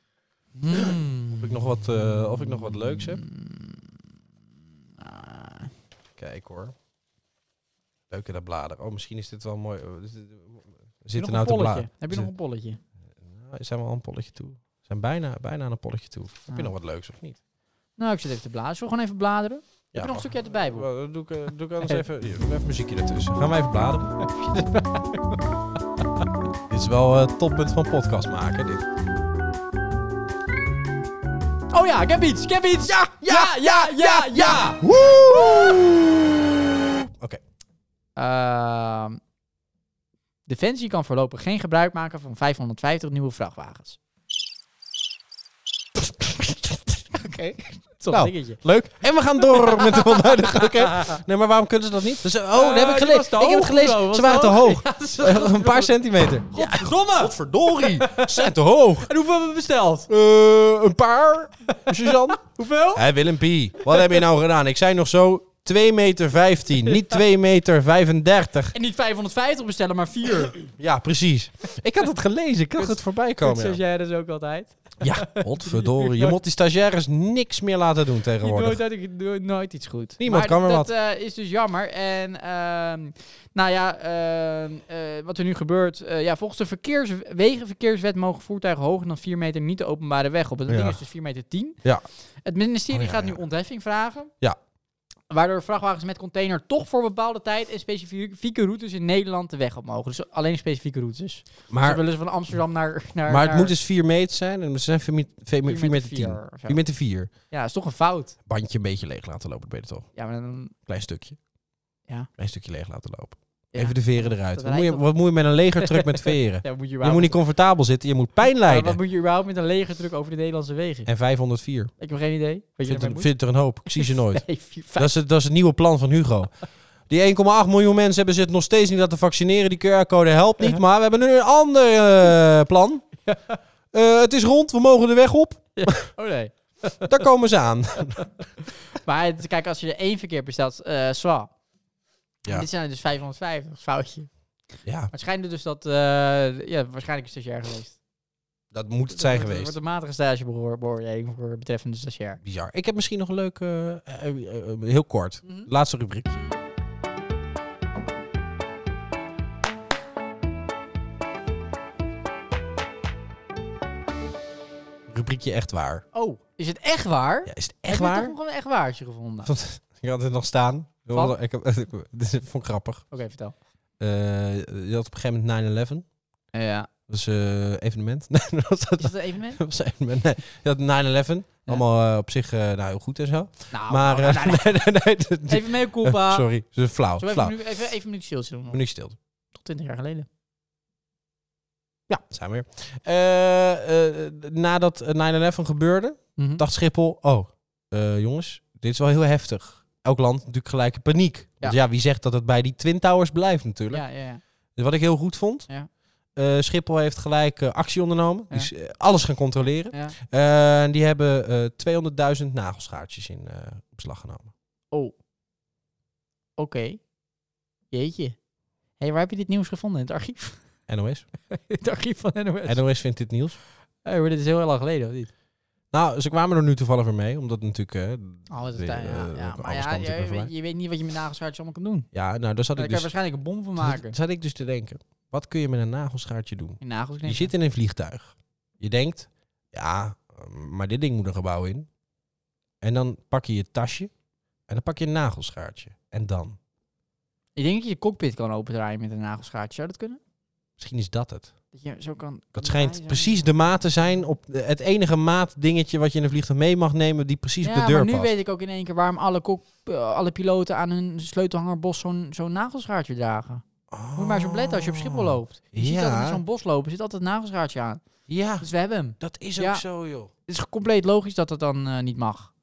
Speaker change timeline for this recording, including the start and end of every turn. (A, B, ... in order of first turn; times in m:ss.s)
0:00.6-0:03.9 A
0:00.7-0:03.2 B
0:05.0-0:05.7 A
0:06.2-0:06.8 B
0:08.1-0:12.3 B
0:11.2-0:12.8 A
0:13.2-0:17.4 B
0:18.0-0:20.9 A
0:19.9-0:24.6 B
0:24.2-0:25.4 A
0:26.7-0:28.8 B
0:31.7-0:34.8 A
0:32.9-0:36.4 B
0:37.0-0:37.4 B
0:38.2-0:39.2 A
0:40.5-0:44.0 A
0:46.4-0:48.6 A
0:48.1-0:59.1 B
0:49.4-0:51.2 A
0:52.5-0:56.0 A
0:56.5-1:00.1 A
1:00.1-1:08.7 B
1:01.7-1:03.0 A
1:03.9-1:04.2 A
1:06.9-1:07.2 A
1:08.7-1:10.6 A
1:10.6-1:13.8 B
1:12.8-1:16.4 A
1:15.0-1:18.8 B
1:18.4-1:31.8 A
1:20.2-1:20.9 B
1:30.7-1:31.0 B
1:32.4-1:34.3 A
1:32.9-1:33.4 B
1:35.3-1:43.7 A
1:41.7-1:42.0 B
1:43.3-1:47.3 B
1:45.6-1:48.4 A
1:48.5-1:50.1 B
1:50.2-1:50.7 A
1:50.8-1:51.4 B
1:52.4-1:59.0 B
1:53.7-1:55.2 A
1:55.8-1:57.4 A
1:58.6-2:01.1 A
2:01.1-2:01.9 B
2:02.0-2:05.1 A
2:02.8-2:06.6 B
2:07.1-2:13.1 B
2:13.2-2:13.6 A
2:13.9-2:16.1 B
2:15.8-2:17.1 A
2:17.0-2:18.4 B
2:18.9-2:21.5 A
2:22.5-2:24.3 A
2:24.8-2:25.1 B
2:25.1-2:28.0 A
2:28.7-2:29.8 B
2:29.1-2:32.4 A
2:32.4-2:36.4 B
2:35.4-2:35.7 A
2:36.3-2:36.6 A
2:45.1-2:46.0 B
2:46.1-2:49.5 A
2:47.5-2:48.4 B
2:49.4-2:53.1 B
2:53.1-2:53.5 A
2:54.0-2:56.1 B
2:56.5-2:56.9 A
2:57.1-3:07.6 B
2:59.0-2:59.6 A
3:03.7-3:04.7 A
3:05.5-3:06.5 A
3:07.2-3:08.8 A
3:08.7-3:09.2 B
3:09.5-3:10.3 A
3:12.2-3:24.0 B
3:16.4-3:16.6 A
3:23.9-3:24.4 A
3:24.8-3:25.7 B
3:26.3-3:34.5 B
3:36.6-3:37.0 A
3:37.9-3:38.4 A
3:39.0-3:40.6 A
3:40.9-3:41.3 B
3:41.5-3:42.8 A
3:42.7-3:43.6 B
3:44.0-3:45.3 A
3:45.9-3:50.5 B
3:48.5-3:52.1 A
3:52.1-3:53.1 B
3:52.8-3:54.2 A
3:53.8-4:01.9 B
3:56.8-3:57.5 A
4:02.8-4:04.1 B
4:04.7-4:06.6 B
4:07.6-4:10.2 A
4:10.8-4:11.5 B
4:11.7-4:13.4 A
4:12.6-4:18.3 B
4:17.6-4:23.6 A
4:23.9-4:26.4 B
4:24.2-4:28.0 A
4:28.3-4:28.7 B
4:28.6-4:29.8 A
4:29.2-4:30.3 B
4:30.5-4:32.5 A